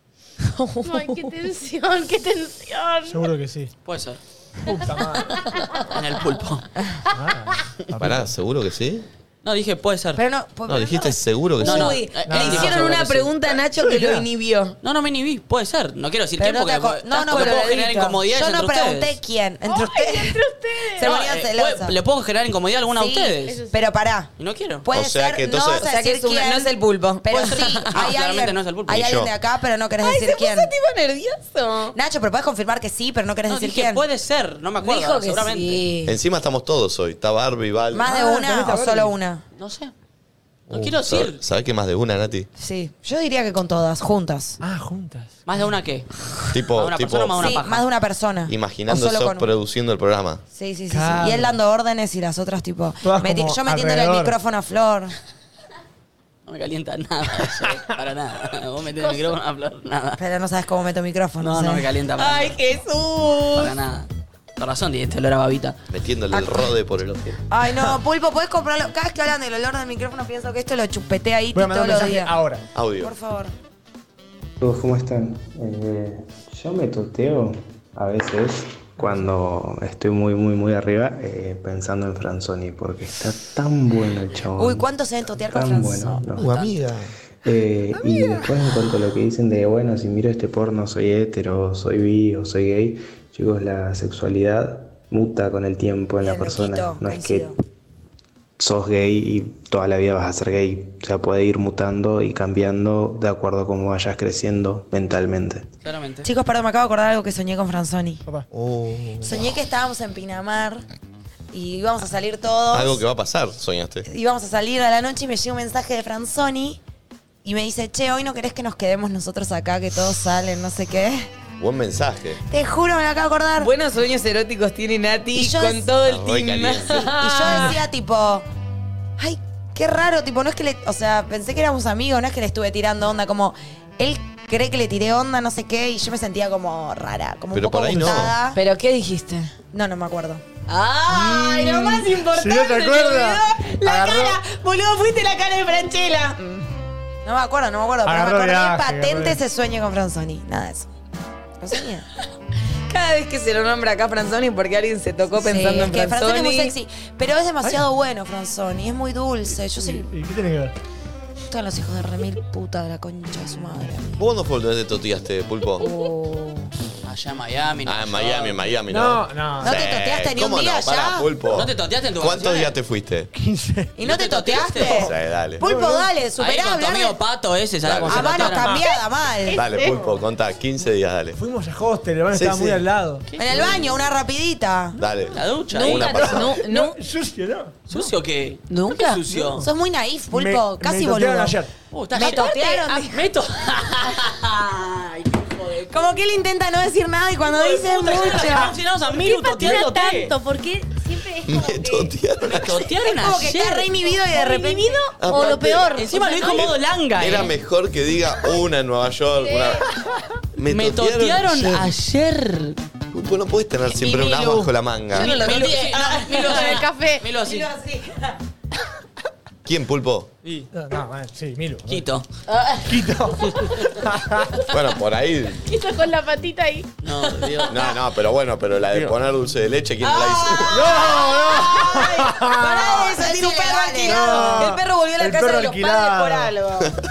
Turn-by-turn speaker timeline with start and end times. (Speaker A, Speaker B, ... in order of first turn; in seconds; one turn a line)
Speaker A: 0.6-1.1
Speaker B: 0.8-3.3
Speaker C: 3.1-3.7
Speaker D: 3.8-4.2
Speaker C: 4.7-5.3
Speaker D: 5.9-6.7
Speaker C: 7.1-8.3
Speaker E: 8.0-9.1
Speaker D: 9.4-10.2
Speaker F: 10.2-11.2
Speaker E: 10.7-12.0
Speaker D: 11.6-13.3
Speaker A: 11.6-14.8
Speaker C: 12.2-12.8
Speaker C: 13.8-14.2
Speaker D: 14.8-19.1
Speaker F: 16.4-20.4
Speaker A: 17.3-18.1
Speaker B: 19.6-21.1
Speaker F: 20.9-21.9
Speaker D: 21.0-23.6
Speaker F: 22.9-24.3
Speaker B: 23.4-23.8
Speaker D: 24.4-24.8
Speaker F: 24.8-30.7
Speaker E: 24.9-25.9
Speaker A: 25.7-27.7
Speaker D: 27.3-29.0
Speaker E: 28.9-29.3
Speaker A: 30.0-31.9
Speaker F: 31.9-34.0
Speaker D: 33.5-35.8
Speaker A: 34.8-36.2
Speaker E: 36.0-38.1
Speaker F: 37.9-39.4
Speaker C: 38.0-39.1
Speaker D: 39.5-39.9
Speaker E: 40.7-42.5
Speaker D: 40.7-41.4
Speaker F: 42.6-44.6
Speaker C: 44.6-45.3
Speaker D: 45.5-46.1
Speaker E: 46.5-47.5
Speaker D: 46.8-47.8
Speaker F: 47.4-49.5
Speaker E: 48.5-50.4
Speaker F: 50.5-55.1
Speaker C: 50.9-51.5
Speaker C: 53.0-54.3
Speaker D: 56.5-60.2
Speaker B: 59.0-59.3
Speaker F: 60.2-61.9
Speaker D: 61.4-62.6
Speaker A: 62.2-63.7
Speaker D: 63.5-65.8
Speaker E: 65.9-67.4
Speaker F: 66.3-66.6
Speaker F: 67.5-72.3
Speaker C: 71.5-72.6
Speaker E: 72.7-73.1
Speaker F: 73.0-73.5
Speaker G: 74.6-86.5
Speaker F: 84.5-86.2
Speaker E: 86.3-87.1
Speaker G: 87.4-97.5
Speaker F: 96.2-97.6
Speaker G: 98.6-105.7
Speaker D: 105.8-106.3
Speaker F: 106.2-108.2
Speaker E: 108.5-109.5
Speaker F: 109.2-110.8
Speaker F: 111.5-113.0
Speaker E: 112.7-114.0
Speaker F: 114.0-116.8
Speaker F: 117.4-121.3
Speaker E: 121.6-122.4
Speaker F: 122.5-123.7
Speaker A: 123.6-127.8
Speaker F: 125.3-125.9
Speaker E: 126.0-127.0
Speaker F: 127.0-128.4
Speaker F: 129.2-138.6
Speaker E: 137.5-138.3
Speaker A: 138.5-139.5
Speaker F: 139.7-140.4
Speaker A: 140.7-146.4
Speaker C: 141.2-144.3
Speaker F: 141.3-142.1
Speaker F: 143.8-144.3
Speaker F: 147.2-150.9
Speaker C: 148.0-149.4
Speaker F: 151.6-152.1
Speaker A: 152.9-156.7
Speaker F: 155.4-160.1
Speaker C: 159.8-160.7
Speaker F: 161.5-164.2
Speaker E: 164.2-165.8
Speaker F: 165.8-166.6
Speaker A: 166.0-166.5
Speaker D: 167.0-168.6
Speaker E: 167.8-173.3
Speaker C: 168.9-169.8
Speaker F: 169.6-171.3
Speaker D: 171.5-172.7
Speaker C: 173.3-173.9
Speaker F: 174.0-177.2
Speaker D: 174.0-175.1
Speaker E: 174.9-175.6
Speaker C: 175.6-176.1
Speaker D: 176.4-178.8
Speaker E: 177.8-178.4
Speaker F: 178.1-179.7
Speaker C: 178.5-178.8
Speaker B: 179.4-180.1
Speaker E: 179.5-181.4
Speaker C: 181.4-183.2
Speaker E: 182.3-182.8
Speaker D: 183.3-183.8
Speaker F: 183.4-185.0
Speaker E: 185.0-186.5
Speaker D: 185.3-186.3
Speaker A: 185.7-187.0
Speaker C: 186.1-187.8
Speaker D: 187.9-189.6
Speaker A: 188.7-189.1
Speaker C: 189.4-189.7
Speaker F: 189.6-191.6
Speaker C: 190.3-191.7
Speaker D: 191.9-195.9
Speaker F: 192.1-193.2
Speaker A: 192.2-192.7
Speaker F: 195.9-198.7
Speaker D: 197.5-200.3
Speaker B: 199.1-202.1
Speaker E: 201.4-202.7
Speaker D: 202.4-203.9
Speaker F: 203.0-205.8
Speaker B: 204.1-206.7
Speaker E: 205.2-205.9
Speaker D: 205.9-207.5
Speaker E: 206.5-209.8
Speaker B: 209.4-209.8
Speaker E: 210.6-211.9
Speaker D: 210.7-212.8
Speaker E: 213.1-215.3
Speaker D: 214.0-214.6
Speaker D: 215.1-217.7
Speaker F: 215.2-216.6
Speaker A: 215.4-215.7
Speaker B: 216.3-217.2
Speaker F: 217.4-218.3
Speaker E: 219.6-220.3
Speaker C: 220.7-222.0
Speaker D: 221.9-222.2
Speaker A: 222.5-223.0
Speaker C: 222.9-224.5
Speaker E: 224.7-225.6
Speaker B: 225.6-226.9
Speaker D: 227.0-227.8
Speaker E: 227.7-231.1
Speaker F: 230.1-236.4
Speaker C: 230.7-233.2
Speaker A: 233.8-236.8
Speaker C: 234.0-236.5